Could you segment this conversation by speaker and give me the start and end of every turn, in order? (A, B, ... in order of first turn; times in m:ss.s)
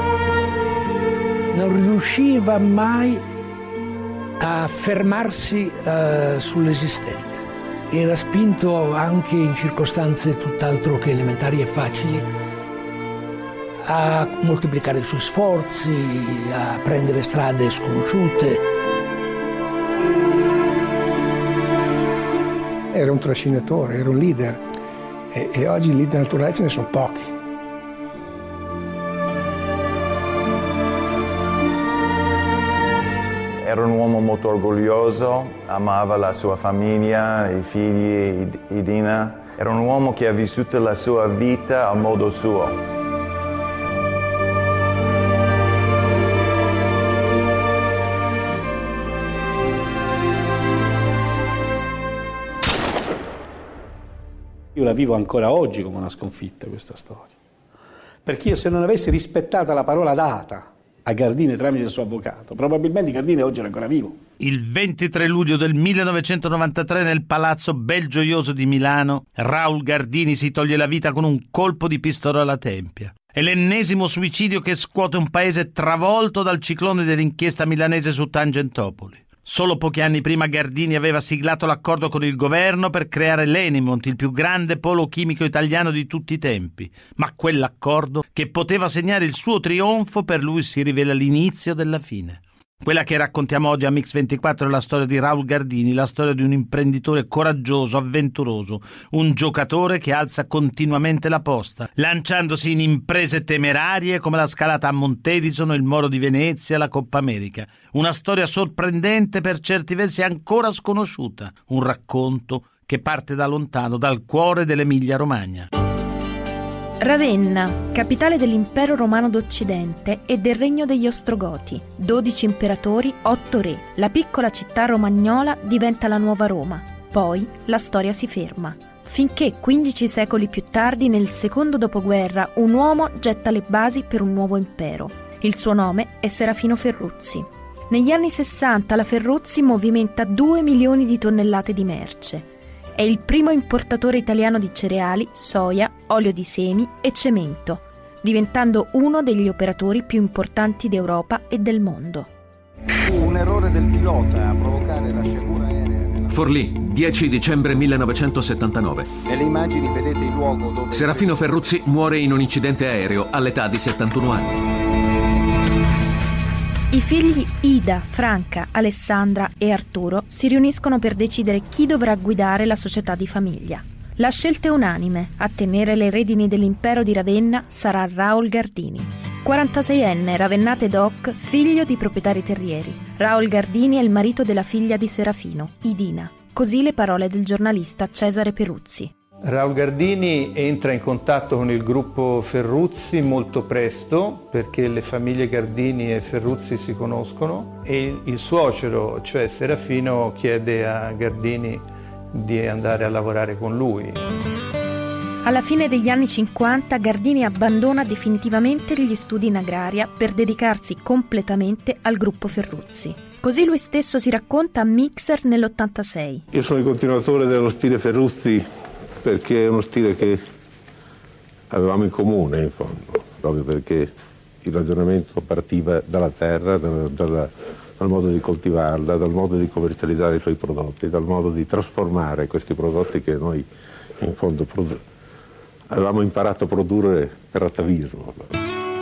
0:01.5-0:03.3 A
0:04.4-0:12.3 A
0:13.8-0:18.6 A
0:22.9-0:24.6 B
0:25.3-0:27.3 B
0:33.6-0:42.8 C
0:54.7-0:57.3 D
0:58.2-1:04.2 D
1:04.4-1:55.7 E
1:57.0-2:32.3 F
2:33.1-2:35.9 G
2:36.3-2:39.2 H
2:39.3-2:41.2 G
2:40.9-2:44.6 H
2:46.9-3:09.1 F
3:09.4-3:24.2 I
3:25.4-3:36.4 F
3:36.5-3:40.4 J
3:41.7-3:44.1 J
3:44.6-3:53.7 J
3:54.2-3:55.0 J
3:55.9-3:58.5 J